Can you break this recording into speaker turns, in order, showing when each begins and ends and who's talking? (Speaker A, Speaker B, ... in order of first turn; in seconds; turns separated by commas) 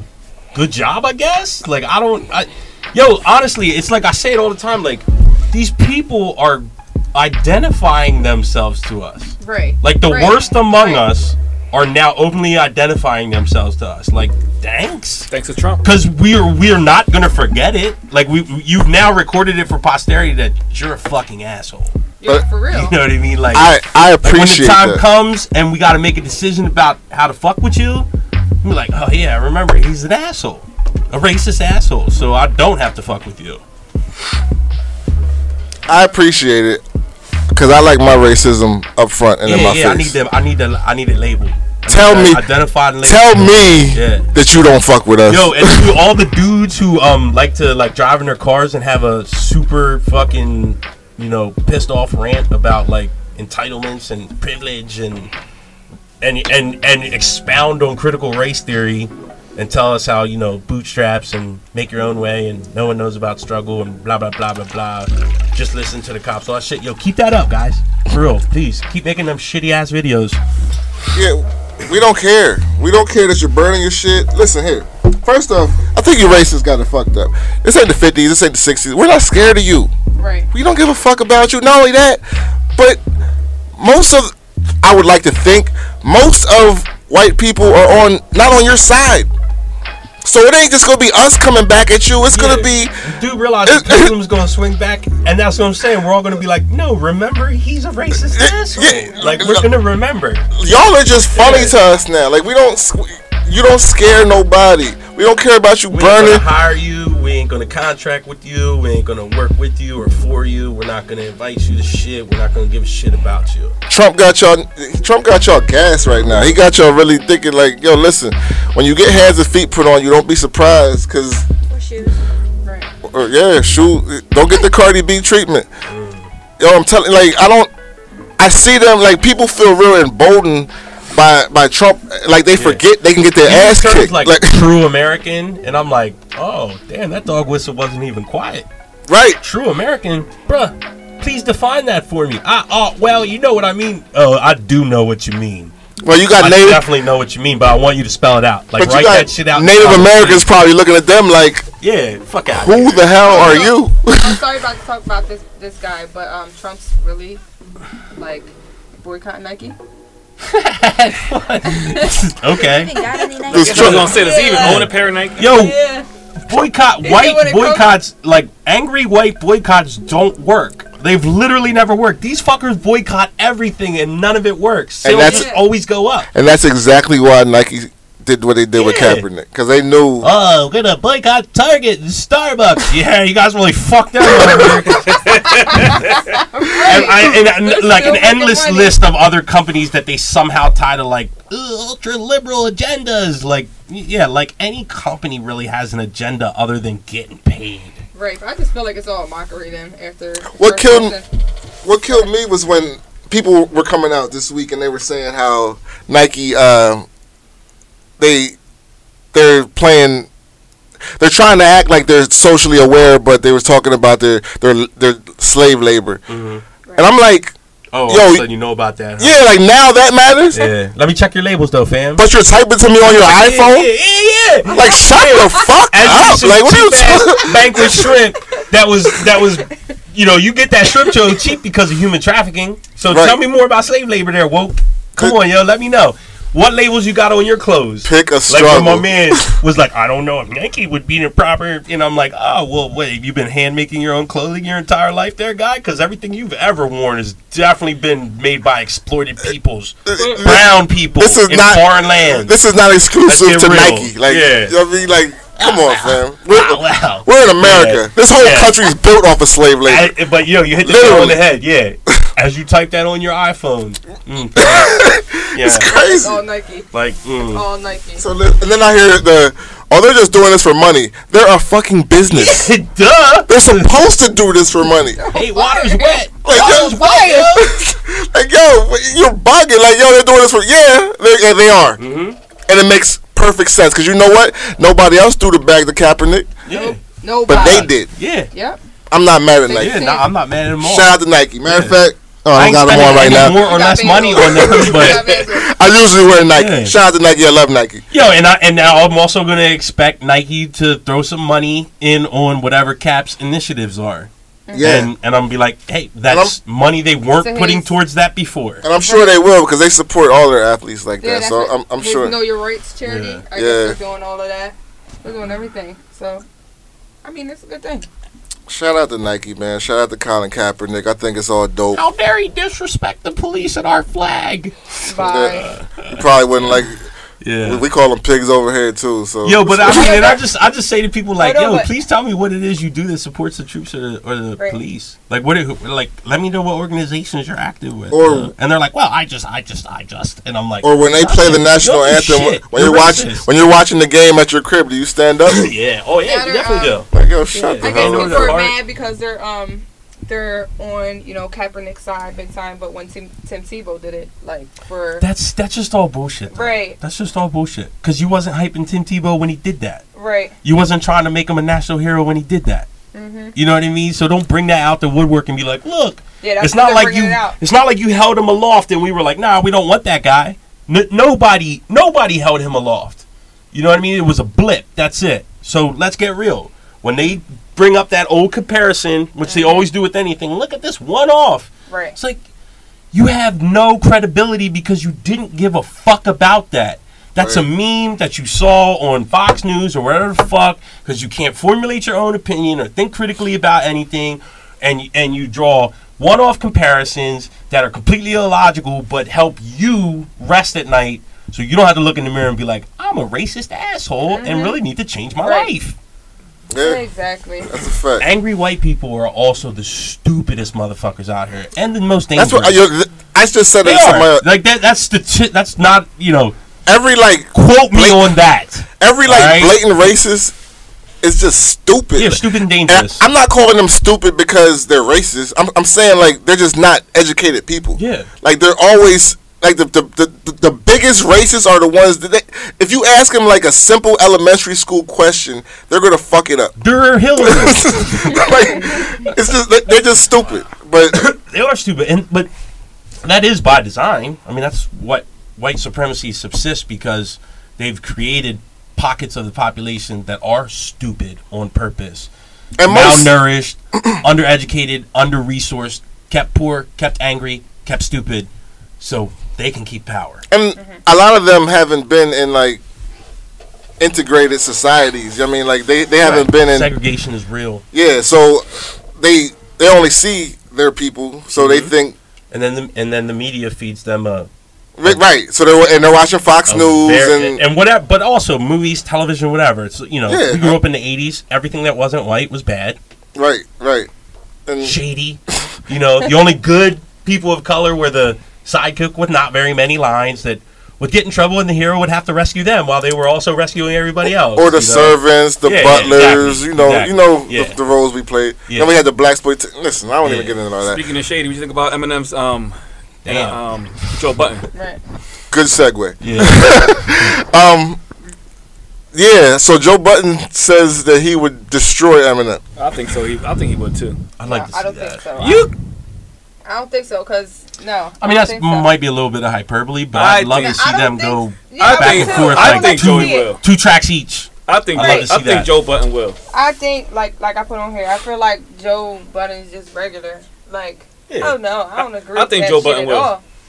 Speaker A: 0.5-15.3, Speaker B: 9.4-11.1, Speaker C: 15.3-15.8, Speaker A: 15.8-21.9, Speaker B: 22.2-22.9, Speaker A: 22.7-28.1, Speaker D: 23.5-25.0, Speaker A: 28.6-33.6, Speaker D: 35.9-36.8, Speaker D: 37.5-40.1, Speaker A: 39.4-44.4, Speaker D: 41.9-42.5, Speaker D: 43.0-46.0, Speaker A: 45.3-55.3, Speaker A: 56.2-70.4, Speaker D: 71.1-79.9, Speaker B: 80.2-80.5, Speaker D: 80.5-82.2, Speaker D: 82.8-83.0, Speaker D: 83.8-89.3, Speaker D: 90.2-93.0, Speaker A: 92.3-100.4, Speaker D: 93.6-94.1, Speaker D: 98.3-99.7, Speaker B: 99.2-99.5, Speaker D: 100.5-106.5, Speaker A: 101.3-101.8, Speaker A: 105.9-113.7, Speaker D: 113.9-121.5, Speaker E: 121.7-122.2, Speaker D: 123.0-125.7, Speaker A: 125.9-126.3, Speaker D: 126.6-127.7, Speaker D: 128.4-134.6, Speaker A: 132.6-132.8, Speaker A: 133.4-138.7, Speaker D: 139.1-139.4, Speaker A: 139.4-145.7, Speaker D: 146.0-146.9, Speaker A: 146.4-150.5, Speaker D: 148.8-151.7, Speaker A: 151.8-153.7, Speaker D: 152.5-154.4, Speaker B: 153.3-157.4, Speaker B: 158.1-159.8, Speaker A: 160.4-163.0, Speaker B: 161.7-162.1, Speaker E: 162.5-164.4, Speaker D: 163.5-164.2, Speaker C: 163.6-165.5, Speaker A: 163.7-165.8, Speaker B: 164.1-164.9, Speaker B: 165.4-166.1, Speaker A: 166.4-176.3, Speaker B: 167.0-168.0, Speaker D: 175.0-175.5, Speaker B: 175.2-175.6, Speaker D: 176.3-180.3, Speaker A: 178.8-179.2, Speaker A: 180.2-198.0, Speaker D: 184.3-184.9, Speaker B: 185.8-189.0, Speaker B: 198.1-201.2, Speaker D: 200.5-201.2, Speaker D: 201.8-207.1, Speaker D: 208.2-208.6, Speaker D: 209.3-210.3, Speaker D: 211.2-216.2, Speaker A: 216.3-216.6, Speaker D: 216.9-217.5, Speaker A: 217.9-219.4, Speaker D: 218.1-218.4, Speaker D: 219.2-220.7, Speaker A: 220.5-222.2, Speaker D: 222.2-223.9, Speaker A: 223.0-225.1, Speaker B: 224.7-225.7, Speaker D: 224.7-228.1, Speaker A: 225.9-252.6, Speaker D: 233.1-233.4, Speaker D: 238.1-239.5, Speaker D: 250.1-260.1, Speaker A: 253.2-254.8, Speaker A: 255.6-258.8, Speaker A: 259.9-264.9, Speaker D: 260.8-261.4, Speaker D: 264.6-266.4, Speaker A: 265.5-265.9, Speaker B: 265.9-266.9, Speaker A: 266.9-267.6, Speaker B: 267.4-268.2, Speaker D: 268.2-272.7, Speaker A: 272.3-274.0, Speaker D: 273.5-275.2, Speaker B: 275.0-277.5, Speaker A: 275.2-277.7, Speaker D: 276.4-282.0, Speaker A: 282.0-282.4, Speaker D: 282.7-286.6, Speaker A: 286.6-288.5, Speaker B: 286.7-288.0, Speaker D: 287.5-288.1, Speaker B: 288.5-288.8, Speaker D: 289.1-290.1, Speaker B: 289.7-290.3, Speaker A: 289.7-291.1, Speaker D: 290.8-298.1, Speaker A: 291.7-292.0, Speaker A: 292.5-295.6, Speaker B: 293.2-295.7, Speaker A: 296.6-296.9, Speaker A: 298.1-308.8, Speaker B: 304.7-305.0, Speaker D: 304.7-305.1, Speaker D: 306.3-306.6, Speaker B: 307.3-307.9, Speaker D: 308.8-312.3, Speaker B: 309.0-309.4, Speaker B: 311.2-316.4, Speaker A: 313.0-313.4, Speaker D: 313.5-314.0, Speaker B: 317.2-318.1, Speaker D: 318.7-322.0, Speaker A: 321.9-326.9, Speaker B: 325.1-325.7, Speaker D: 325.2-327.0, Speaker A: 327.4-327.8, Speaker D: 327.6-330.3, Speaker A: 329.4-343.5, Speaker B: 329.8-330.4, Speaker B: 331.4-331.9, Speaker D: 338.1-338.5, Speaker D: 340.8-345.7, Speaker A: 345.4-348.8, Speaker B: 346.2-347.0, Speaker D: 347.1-348.6, Speaker B: 347.8-355.3, Speaker A: 355.2-360.1, Speaker B: 356.5-357.0, Speaker B: 360.1-360.6, Speaker A: 360.6-362.9, Speaker B: 363.1-363.6, Speaker A: 363.6-382.4, Speaker B: 366.4-367.6, Speaker B: 379.4-379.9, Speaker B: 381.9-382.1, Speaker A: 383.1-405.9, Speaker D: 387.4-387.6, Speaker B: 404.2-404.8, Speaker B: 405.4-405.7, Speaker D: 406.7-407.0, Speaker B: 406.8-407.7, Speaker D: 407.6-408.3, Speaker A: 408.2-412.8, Speaker D: 412.4-414.5, Speaker A: 413.8-416.6, Speaker D: 416.9-418.3, Speaker A: 417.5-419.8, Speaker D: 419.0-420.6, Speaker D: 421.2-436.7, Speaker A: 422.2-423.2, Speaker A: 427.9-428.3, Speaker A: 436.8-438.5, Speaker D: 437.4-441.3, Speaker A: 441.1-442.5, Speaker A: 443.2-452.3, Speaker D: 452.8-453.3, Speaker A: 452.8-458.5, Speaker A: 459.0-460.4, Speaker D: 460.5-462.8, Speaker D: 464.0-466.9, Speaker A: 466.2-467.8, Speaker D: 467.9-472.1, Speaker A: 471.5-471.9, Speaker A: 472.5-474.5, Speaker D: 475.0-477.6, Speaker A: 476.7-483.0, Speaker D: 480.3-480.8, Speaker D: 483.3-484.1, Speaker D: 484.6-485.0, Speaker A: 484.8-497.8, Speaker D: 494.5-501.0, Speaker A: 500.2-500.6, Speaker C: 500.9-504.7, Speaker A: 503.2-504.3, Speaker B: 504.7-505.0, Speaker D: 505.5-508.0, Speaker A: 506.2-507.3, Speaker D: 509.1-512.6, Speaker C: 512.8-514.2, Speaker A: 514.4-515.7, Speaker B: 514.4-515.7, Speaker B: 516.6-518.9, Speaker A: 518.2-525.7, Speaker C: 520.1-520.7, Speaker B: 520.5-523.5, Speaker C: 521.8-523.6, Speaker C: 524.6-526.4, Speaker B: 525.0-525.3, Speaker B: 526.5-533.4, Speaker C: 531.3-533.3